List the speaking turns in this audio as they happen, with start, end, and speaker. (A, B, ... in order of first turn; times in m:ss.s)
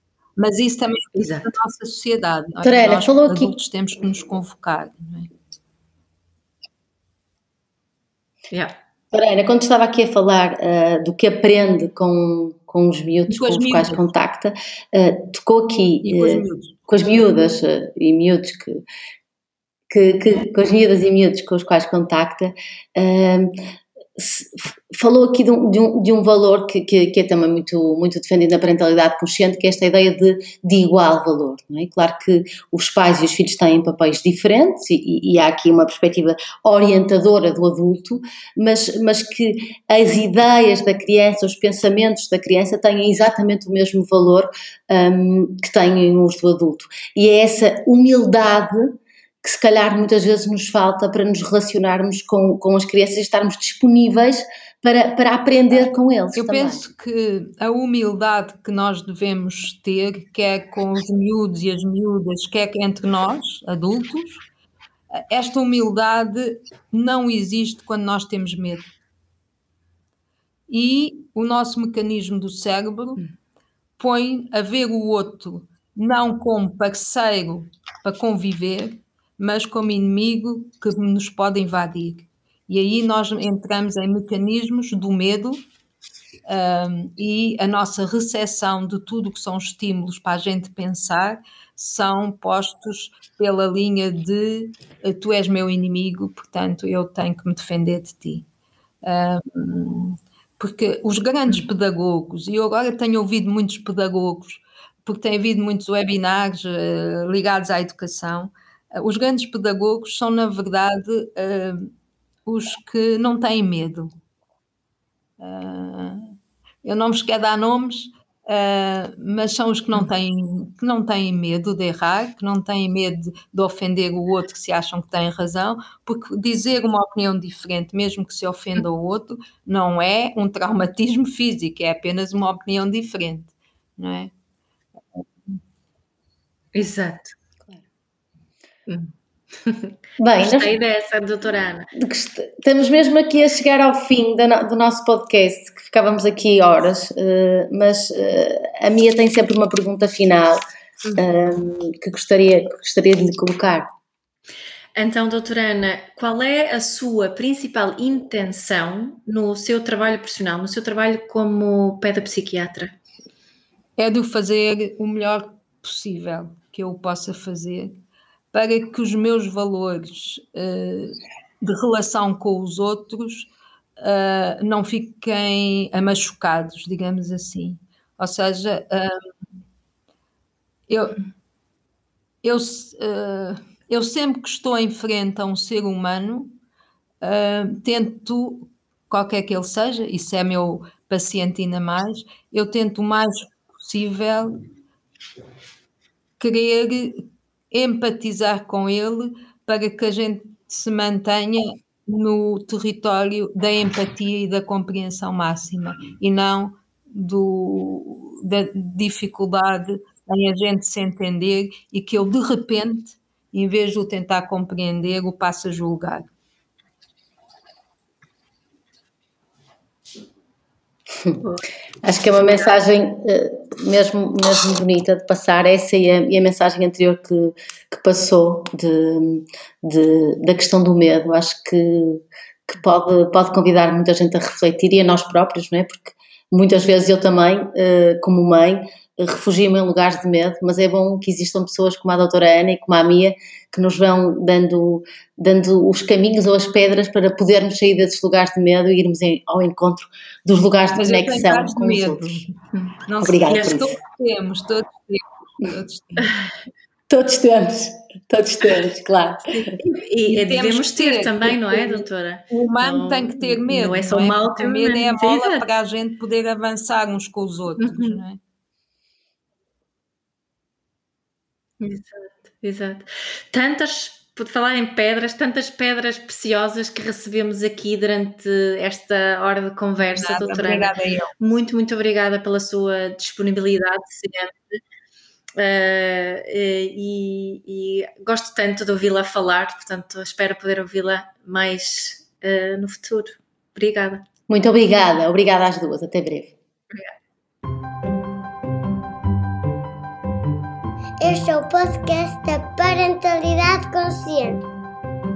0:00.4-0:05.3 A
0:01.2-0:01.5 B
0:02.6-0:03.5 C
0:09.1-0:18.8 C
0:13.3-0:14.0 A
0:16.0-0:16.8 A
0:19.9-0:23.6 C
0:24.2-0:56.8 C
0:56.3-1:04.4 A
1:05.1-1:08.9 A
1:10.7-1:13.2 A
1:14.0-1:25.6 A
1:26.4-1:38.4 A
1:39.0-1:51.9 A
1:52.4-1:54.1 A
1:55.4-1:56.3 A
1:56.8-2:14.3 A
2:15.1-2:15.6 A
2:16.7-2:17.3 B
2:18.9-2:21.9 B
2:20.2-2:20.7 C
2:22.0-2:30.6 C
2:31.2-2:33.9 C
2:34.9-2:42.9 B
2:44.0-2:47.9 A
2:48.5-2:59.2 A
3:00.9-3:01.2 A
3:02.4-3:06.5 A
3:07.2-3:14.6 A
3:16.4-3:36.3 A
3:42.0-4:12.4 C
4:10.9-4:16.4 A
4:13.2-4:14.0 C
4:17.1-4:19.7 C
4:19.8-4:25.7 B
4:20.3-4:28.4 A
4:27.8-4:28.2 B
4:31.8-4:44.8 B
4:40.0-4:41.3 A
4:45.5-4:54.2 B
4:54.5-4:56.5 C
5:01.2-5:04.6 D